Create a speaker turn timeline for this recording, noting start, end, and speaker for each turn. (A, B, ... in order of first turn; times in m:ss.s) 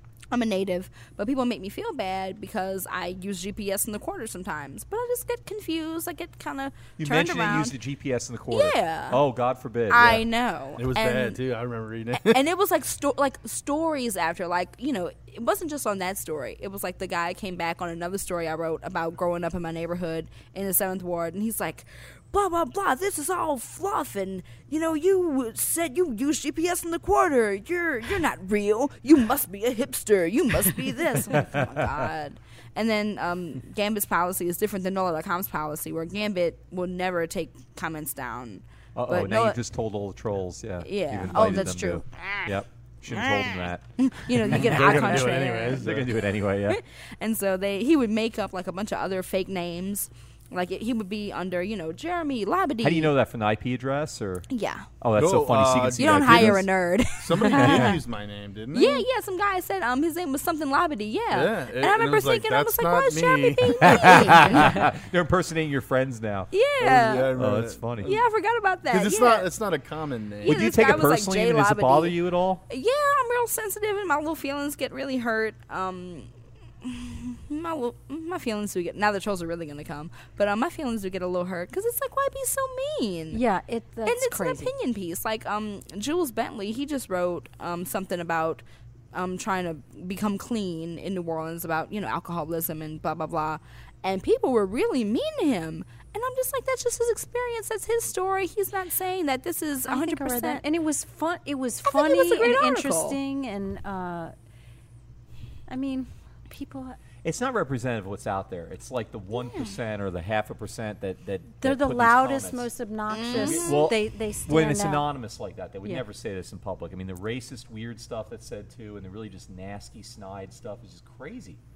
0:00.3-0:07.8 A
0:07.0-0:10.2 B
0:08.5-0:09.2 A
0:09.9-0:11.4 A
0:10.8-0:12.4 C
0:12.2-0:39.6 A
0:31.4-0:31.9 B
0:39.0-0:46.8 B
0:40.8-0:42.6 A
0:43.1-0:45.9 A
0:44.5-0:46.2 C
0:46.7-0:53.1 A
0:52.8-0:54.5 B
0:54.5-0:54.9 A
0:55.0-0:56.7 B
0:55.2-0:59.1 C
0:56.0-0:58.0 A
0:57.4-0:58.0 B
0:58.7-1:04.9 A
1:01.3-1:04.8 C
1:03.8-1:06.5 B
1:06.5-1:07.4 A
1:06.8-1:08.3 C
1:07.4-1:08.1 B
1:08.0-1:09.5 A
1:08.9-1:10.8 C
1:10.4-1:16.3 A
1:10.4-1:12.6 B
1:16.8-1:23.4 A
1:23.3-1:24.7 D
1:24.1-1:40.6 A
1:39.9-1:44.3 D
1:41.9-1:43.2 A
1:45.7-1:47.0 D
1:47.2-1:52.7 B
1:51.6-1:55.1 D
1:53.1-1:53.9 A
1:53.3-2:01.6 B